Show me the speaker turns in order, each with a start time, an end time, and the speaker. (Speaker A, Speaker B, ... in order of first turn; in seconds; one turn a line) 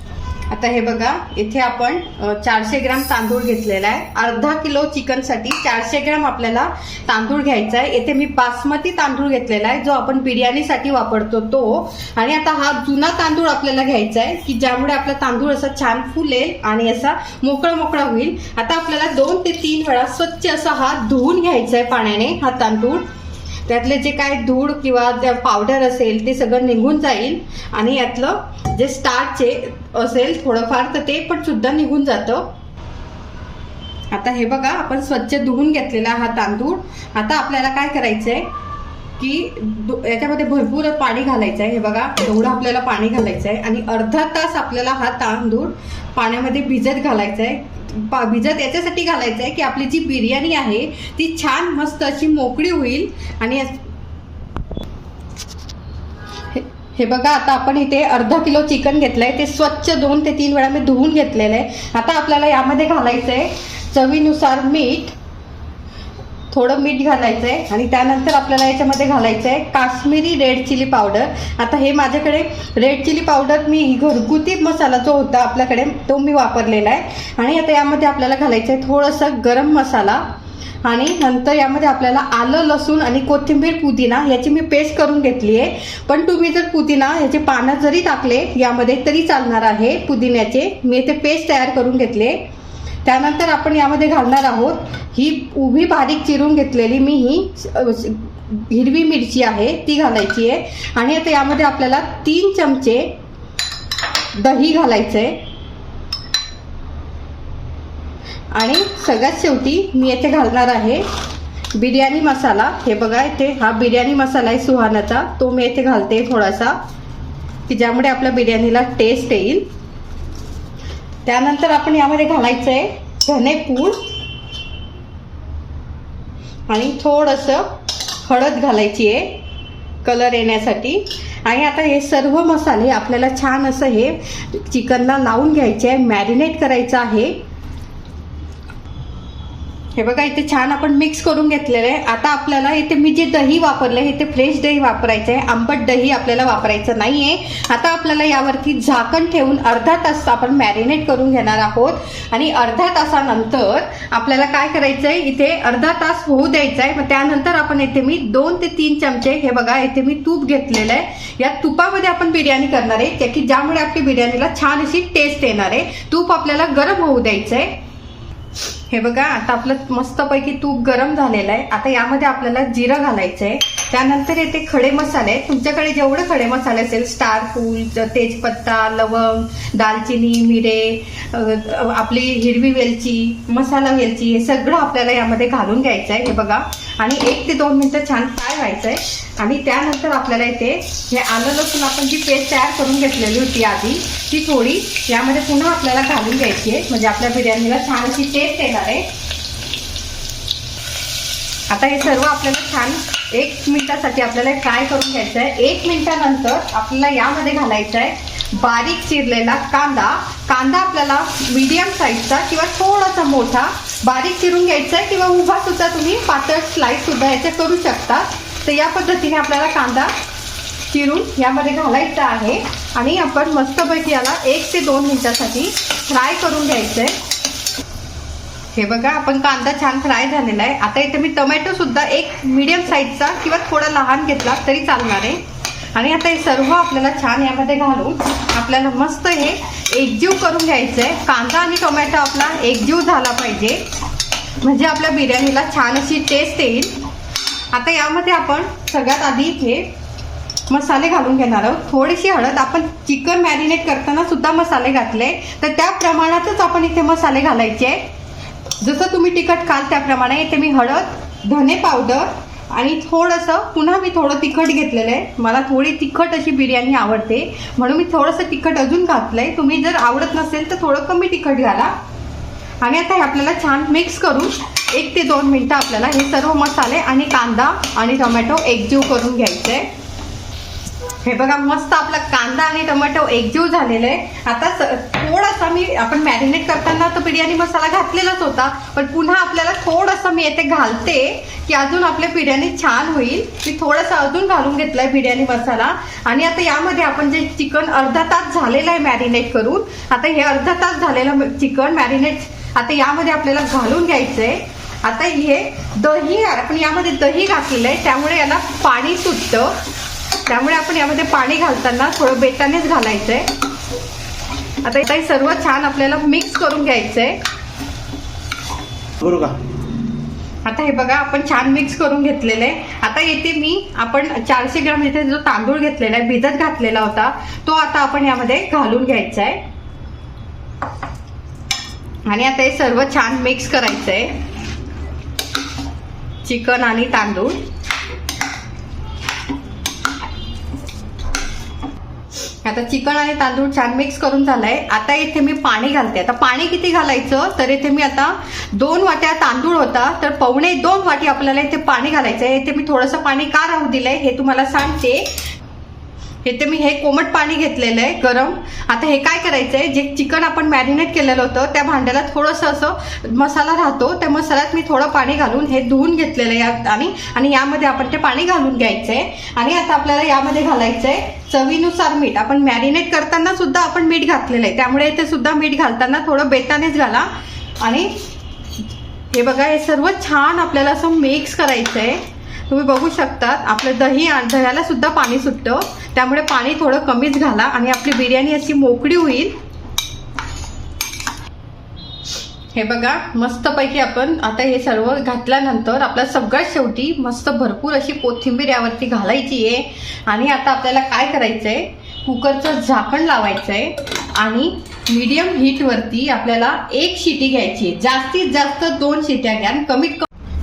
Speaker A: 0.5-23.1
Speaker A: 23.7-32.5
Speaker A: 34.1-38.5
Speaker A: 39.2-53.8
Speaker A: 56.5-65.2
Speaker A: 66.5-80.2
Speaker A: 80.8-92.4
Speaker A: 93.0-103.1
Speaker A: 104.4-105.4
Speaker A: 108.5-111.0
Speaker A: 111.8-116.8
Speaker A: 117.7-119.7
Speaker A: 121.2-124.0
Speaker A: 126.7-129.3
Speaker A: 130.0-137.4
Speaker A: 140.0-167.8
Speaker A: 168.9-199.1
Speaker A: 201.7-220.1
Speaker A: 220.9-227.2
Speaker A: 228.8-235.4
Speaker A: 235.9-243.8
Speaker A: 244.6-247.0
Speaker A: 247.7-249.9
Speaker A: 250.7-258.0
Speaker A: 258.8-271.9
Speaker A: 272.8-279.9
Speaker A: 281.2-309.8
Speaker A: 310.5-313.5
Speaker A: 314.8-317.4
Speaker A: 320.6-329.6
Speaker A: 332.2-334.3
Speaker A: 336.4-337.6
Speaker A: 342.6-355.3
Speaker A: 356.4-377.3
Speaker A: 377.8-378.1
Speaker A: 379.3-389.5
Speaker A: 392.8-410.3